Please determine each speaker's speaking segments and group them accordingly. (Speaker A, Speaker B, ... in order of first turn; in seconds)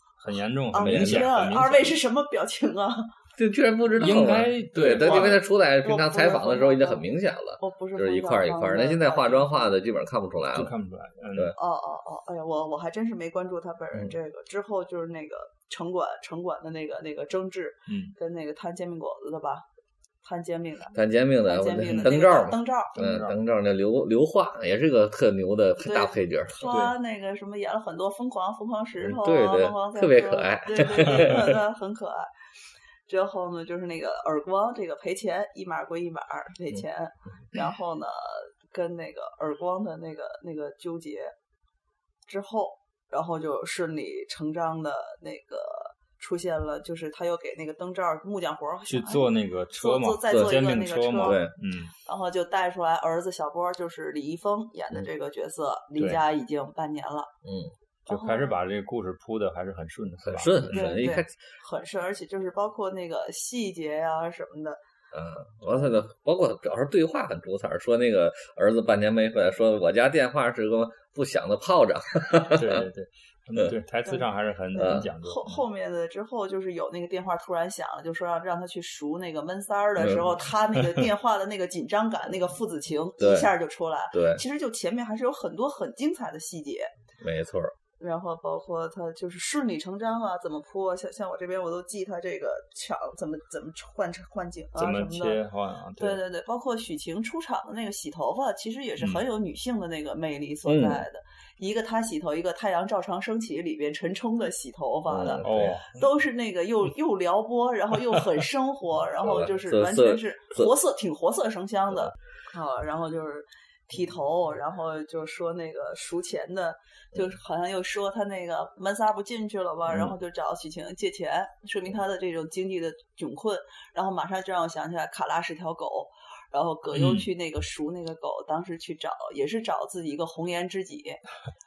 Speaker A: 0.2-2.0, 4.0-5.4, 10.5-11.5, 17.9-18.1, 22.9-23.4, 26.7-26.9, 48.9-51.9, 58.1-60.9, 72.5-75.6, 94.8-96.2, 105.4-105.9, 126.9-127.3
Speaker B: 0.7-3.1, 5.0-7.0, 7.6-9.8, 11.6-19.6, 20.2-23.1, 25.8-32.3, 33.1-41.3, 42.2-51.4, 52.0-57.3, 58.1-58.6, 60.7-64.8, 74.1-86.9, 88.0-95.4, 96.0-131.2
Speaker C: 0.8-1.3, 3.4-10.7, 20.9-26.7, 29.0-31.6, 51.2-51.5, 57.4-57.7, 60.2-61.3, 65.1-72.9, 74.8-75.1, 83.2-83.5, 84.1-84.4, 87.2-87.7, 100.7-101.0, 105.1-105.8, 109.2-110.7